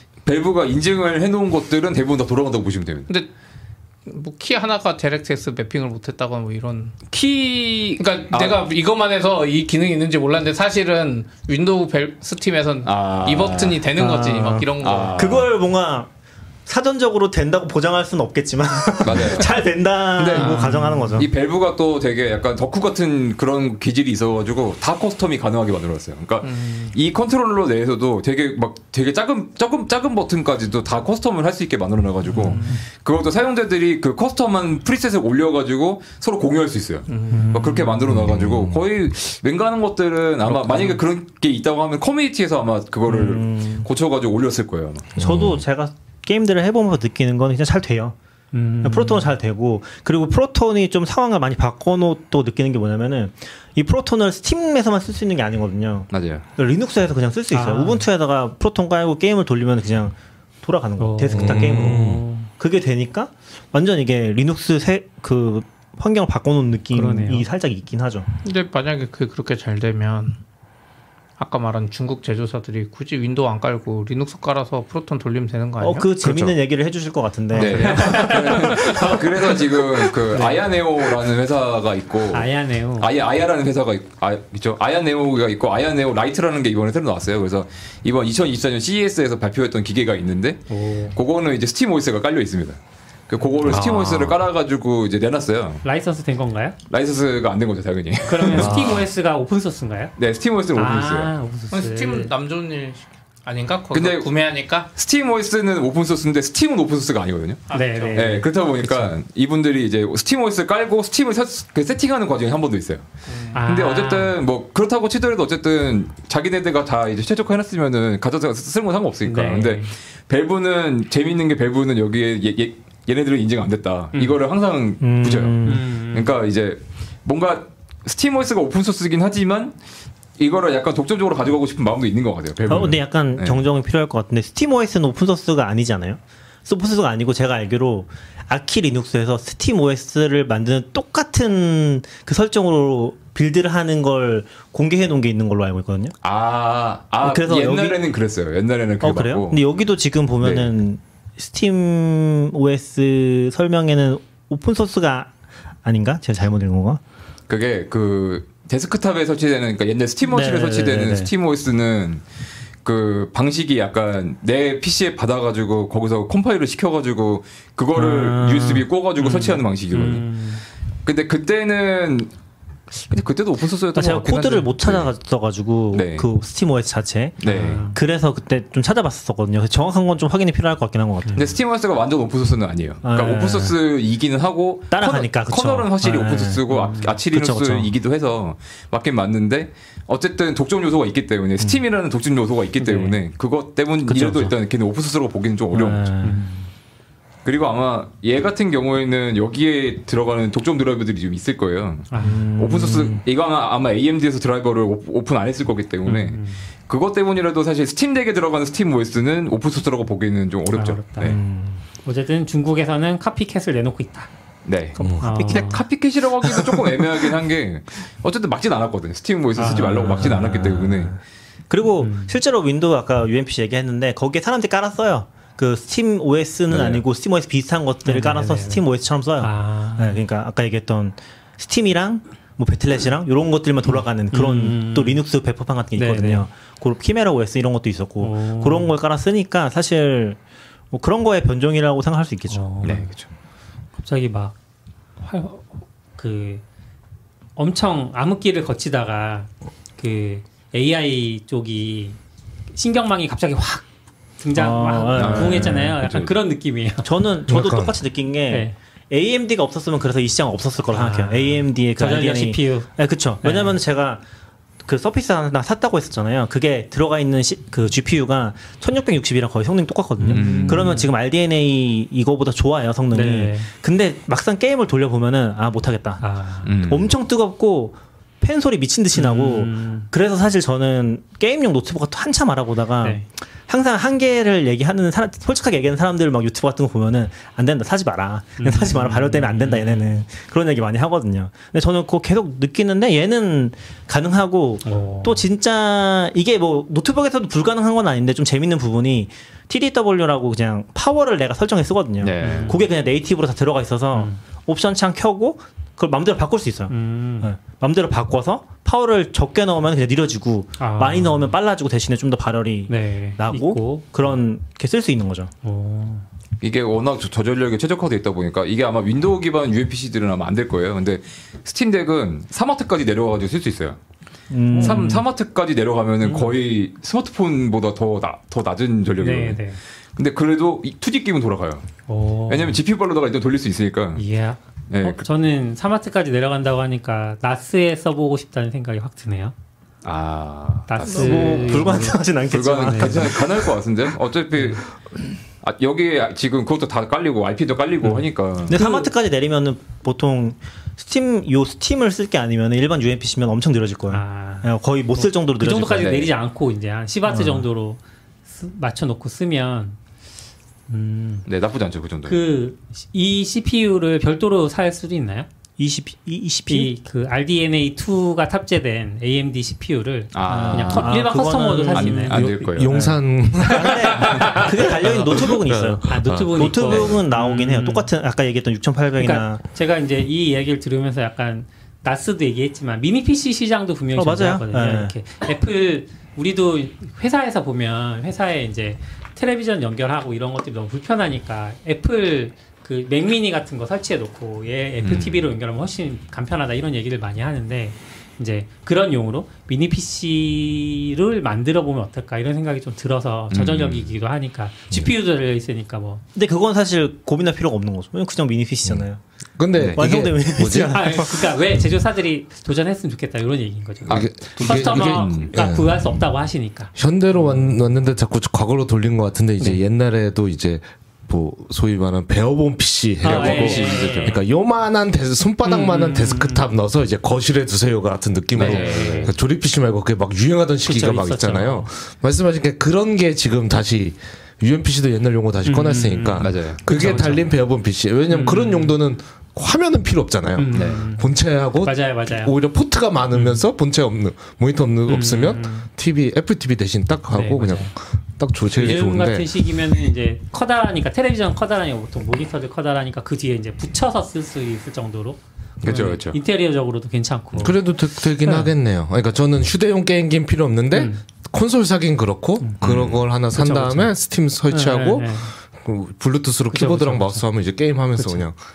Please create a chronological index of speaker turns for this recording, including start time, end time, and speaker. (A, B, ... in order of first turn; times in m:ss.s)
0:00.2-0:03.1 A
0:04.1-0:07.0 B
0:07.1-0:08.6 A
0:08.0-0:15.4 B
0:12.8-0:13.8 A
0:14.0-0:16.1 C
0:14.8-0:15.5 A
0:16.7-0:21.3 C
0:19.0-0:19.6 A
0:20.2-0:45.1 A
0:20.3-0:21.2 D
0:20.4-0:20.7 B
0:26.4-0:27.0 B
0:32.3-0:32.8 D
0:32.4-0:32.8 B
0:37.1-0:37.6 B
0:37.3-0:38.0 D
0:38.1-0:38.8 E
0:43.1-0:43.9 C
0:45.2-0:45.6 E
0:45.2-0:48.2 C
0:48.5-0:49.3 D
0:48.8-1:08.3 C
0:56.1-0:56.4 A
0:57.5-0:58.1 D
1:01.0-1:02.5 D
1:01.3-1:02.2 E
1:06.9-1:07.5 D
1:08.4-1:10.4 B
1:11.4-1:16.1 B
1:15.8-1:19.2 C
1:16.2-1:16.6 E
1:17.5-1:19.5 D
1:17.5-1:35.8 A
1:20.3-1:20.7 D
1:22.3-1:23.1 D
1:30.7-1:31.2 D
1:33.6-1:34.4 E
1:35.8-1:36.8 D
1:36.9-1:39.0 A
1:38.2-1:40.1 D
1:38.5-1:39.0 E
1:40.2-1:41.3 A
1:40.7-1:42.3 D
1:41.7-1:44.9 B
1:43.9-1:44.3 A
1:44.9-1:53.1 A
1:47.7-1:48.2 B
1:47.7-1:49.1 D
1:53.3-1:53.6 B
1:53.5-1:54.4 D
1:53.7-2:09.8 A
1:59.2-1:59.9 D
2:05.0-2:05.8 C
2:05.6-2:06.3 D
2:10.4-2:13.6 A
2:12.7-2:26.2 C
2:26.2-2:29.6 A
2:27.2-2:28.0 C
2:29.0-2:35.3 C
2:30.4-2:30.7 A
2:35.8-2:37.0 C
2:37.5-2:42.2 A
2:40.3-2:41.3 C
2:42.8-2:50.3 A
2:48.0-2:48.8 C
2:49.2-2:50.6 D
2:51.0-2:52.3 A
2:53.1-2:55.1 A
2:54.0-3:01.5 C
2:55.9-2:56.3 A
2:57.4-2:57.8 A
2:57.4-2:58.0 D
3:01.4-3:16.1 A
3:03.0-3:03.8 C
3:04.9-3:07.9 C
3:06.7-3:07.2 D
3:12.8-3:13.2 D
3:14.1-3:14.5 C
3:15.7-3:16.6 C
3:16.2-3:16.5 D
3:17.4-3:31.4 A
3:22.1-3:22.4 D
3:22.2-3:23.2 C
3:26.1-3:26.6 D
3:30.7-3:31.4 D
3:31.2-3:31.8 C
3:32.0-3:34.3 D
3:34.6-3:41.2 A
3:35.0-3:35.7 C
3:35.2-3:35.9 D
3:36.6-3:37.0 C
3:39.6-3:40.7 D
3:40.2-3:41.2 C
3:41.7-4:00.4 C
3:42.0-3:42.4 D
3:46.7-3:47.0 A
3:48.0-3:48.8 D
3:49.4-3:50.2 D
3:53.9-3:55.2 D
3:56.0-3:56.5 D
3:58.2-3:59.0 D
4:00.9-4:02.7 C
4:02.5-4:03.1 D
4:02.8-4:03.3 A
4:04.0-4:04.5 D
4:05.2-4:06.6 D
4:07.6-4:12.2 D
4:12.7-4:13.8 D
4:14.4-4:17.1 D
4:14.6-4:16.0 C
4:15.2-4:16.3 A
4:17.0-4:24.2 C
4:17.5-4:18.0 E
4:18.5-4:18.8 D
4:20.9-4:22.9 D
4:23.4-4:23.8 D
4:24.8-4:36.2 C
4:30.2-4:31.0 A
4:30.3-4:31.1 D
4:33.1-4:33.7 D
4:36.2-4:36.7 D
4:36.6-4:37.1 A
4:36.8-5:15.5 C
4:39.1-4:40.1 D
4:48.6-4:50.2 D
4:54.8-4:55.4 D
5:02.2-5:02.8 A
5:02.4-5:02.9 D
5:04.1-5:04.4 D
5:06.9-5:07.5 D
5:10.8-5:11.5 D
5:12.9-5:14.4 D
5:15.6-5:16.3 D
5:16.6-5:24.0 A
5:24.5-5:25.2 C
5:24.7-5:25.2 D
5:24.8-5:29.6 A
5:26.2-5:26.6 D
5:29.2-5:29.8 D
5:30.2-5:31.9 A
5:32.1-5:32.8 D
5:32.5-5:34.2 A
5:34.2-5:39.5 D
5:34.9-5:35.3 A
5:40.0-5:44.9 A
5:40.9-5:42.2 D
5:41.0-5:43.8 C
5:42.8-5:43.3 D
5:44.6-5:44.8 D
5:45.6-5:49.1 A
5:48.0-5:49.0 D
5:48.7-5:56.2 C
5:54.1-6:00.0 D
5:56.0-5:56.3 A
5:57.3-5:57.7 C
6:00.9-6:01.5 D
6:01.5-6:02.4 A
6:02.3-6:05.5 D
6:05.8-6:06.9 C
6:06.7-6:12.4 D
6:10.3-6:11.3 A
6:10.4-6:19.6 C
6:11.9-6:12.9 A
6:12.3-6:17.1 E
6:14.2-6:15.1 D
6:14.3-6:14.6 A
6:16.1-6:18.1 D
6:19.2-6:46.2 D
6:24.2-6:25.2 C
6:35.0-6:35.4 A
6:43.5-6:44.1 A
6:46.4-6:49.2 C
6:49.6-6:51.0 E
6:49.9-6:51.6 C
6:50.8-6:57.7 D
6:54.1-6:55.5 A
6:54.1-6:56.0 E
6:57.0-7:29.5 E
7:03.2-7:04.4 D
7:03.2-7:04.4 A
7:03.8-7:04.0 B
7:05.6-7:06.7 D
7:08.6-7:09.3 A
7:08.6-7:09.3 D
7:10.8-7:11.9 D
7:15.6-7:17.6 D
7:16.4-7:16.8 A
7:18.3-7:19.0 D
7:20.6-7:21.3 D
7:20.7-7:21.0 A
7:21.8-7:22.6 D
7:23.3-7:23.6 D
7:25.1-7:25.9 D
7:27.3-7:27.9 D
7:28.7-7:37.8 D
7:35.8-7:36.4 A
7:37.6-7:48.6 E
7:38.4-7:38.7 D
7:40.9-7:41.2 D
7:42.8-7:43.2 A
7:43.5-7:44.1 D
7:44.7-7:45.5 D
7:46.7-7:47.5 D
7:48.2-7:48.4 D